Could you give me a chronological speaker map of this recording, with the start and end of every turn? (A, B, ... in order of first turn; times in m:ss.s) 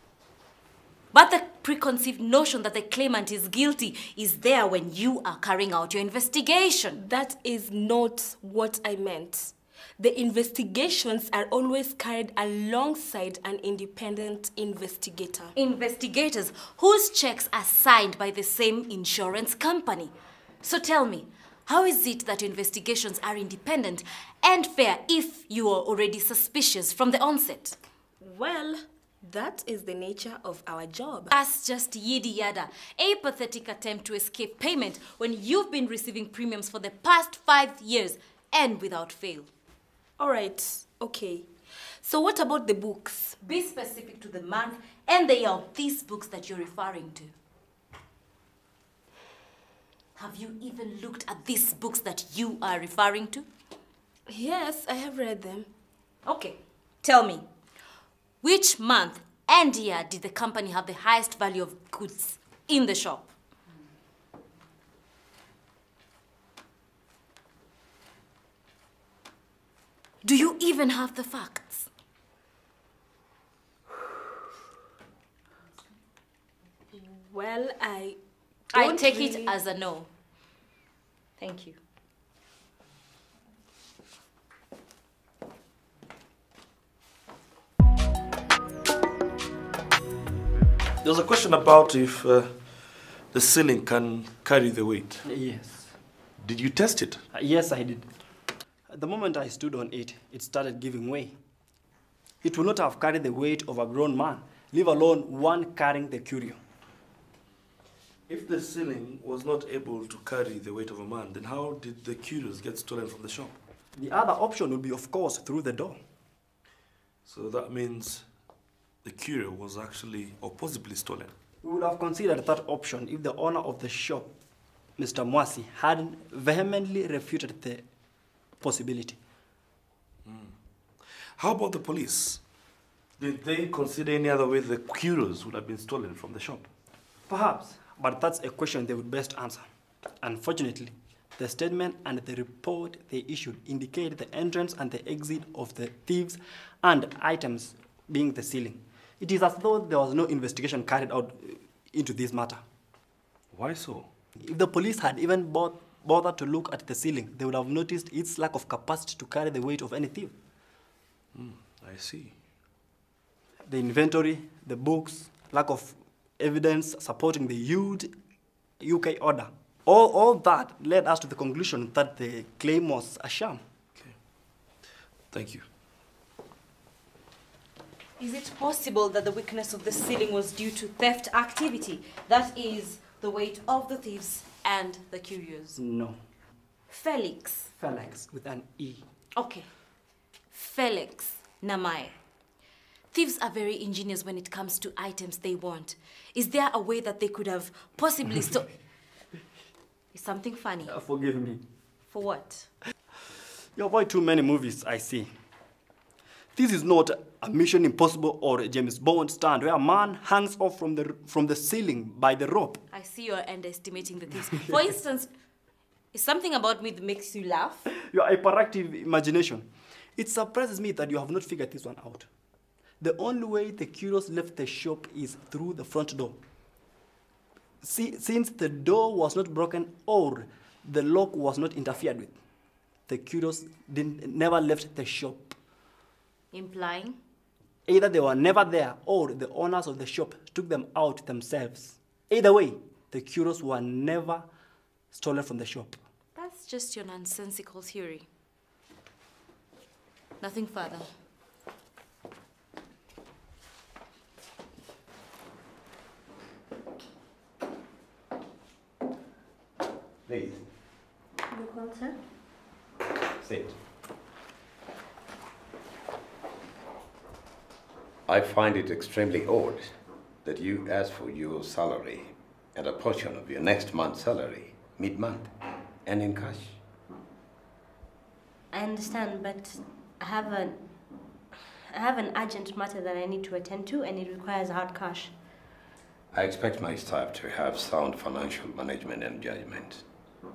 0:01.1-0:07.0 A
0:07.0-0:15.5 B
0:15.6-0:27.8 A
0:28.2-0:31.3 B
0:31.3-0:39.5 A
0:40.2-0:41.5 B
0:42.0-0:43.4 B
0:43.4-0:47.3 A
0:50.2-0:53.4 A
0:54.3-0:55.7 B
0:56.2-0:57.4 A
0:58.4-1:03.3 A
1:10.2-1:11.9 A
1:16.9-1:18.2 B
1:18.7-1:19.5 B
1:18.7-1:20.1 A
1:21.4-1:21.8 A
1:31.0-1:35.2 C
1:35.2-1:36.0 D
1:36.4-1:37.2 C
1:37.3-1:38.2 D
1:38.9-1:41.4 D
1:42.4-1:46.6 D
1:48.3-1:53.5 C
1:54.0-1:56.0 D
1:57.2-1:58.2 C
1:59.0-2:01.3 C
2:01.6-2:04.4 D
2:05.0-2:07.9 D
2:08.6-2:09.2 D
2:10.2-2:10.5 C
2:11.4-2:12.4 C
2:13.2-2:16.7 C
2:17.3-2:19.7 D
2:20.2-2:32.6 D
2:33.5-2:34.1 C
2:34.4-2:40.4 D
2:41.3-2:42.3 C
2:43.6-2:48.1 D
2:48.8-2:53.6 D
2:55.3-2:55.6 C
2:58.2-3:05.8 A
3:05.8-3:06.2 D
3:06.9-3:07.7 A
3:07.8-3:09.0 D
3:09.4-3:09.7 A
3:10.5-3:12.2 A
3:13.1-3:18.7 A
3:20.1-3:20.9 A
3:20.8-3:21.6 D
3:22.1-3:22.7 A
3:23.8-3:25.3 D
3:26.5-3:32.8 D
3:32.9-3:35.3 A
3:36.1-3:37.9 A
3:38.1-3:42.3 D
3:43.0-3:46.4 D
3:47.8-3:52.4 D
3:53.1-3:55.6 D
3:56.5-3:57.2 A
3:57.9-4:04.4 D
4:05.1-4:06.0 D
4:06.4-4:08.3 A
4:10.4-4:11.0 A
4:20.2-4:20.6 E
4:21.5-4:22.2 F
4:23.4-4:23.8 E
4:28.3-4:35.5 E
4:36.0-4:36.8 E
4:38.7-4:40.9 F
4:41.9-4:45.3 F
4:46.3-4:50.0 E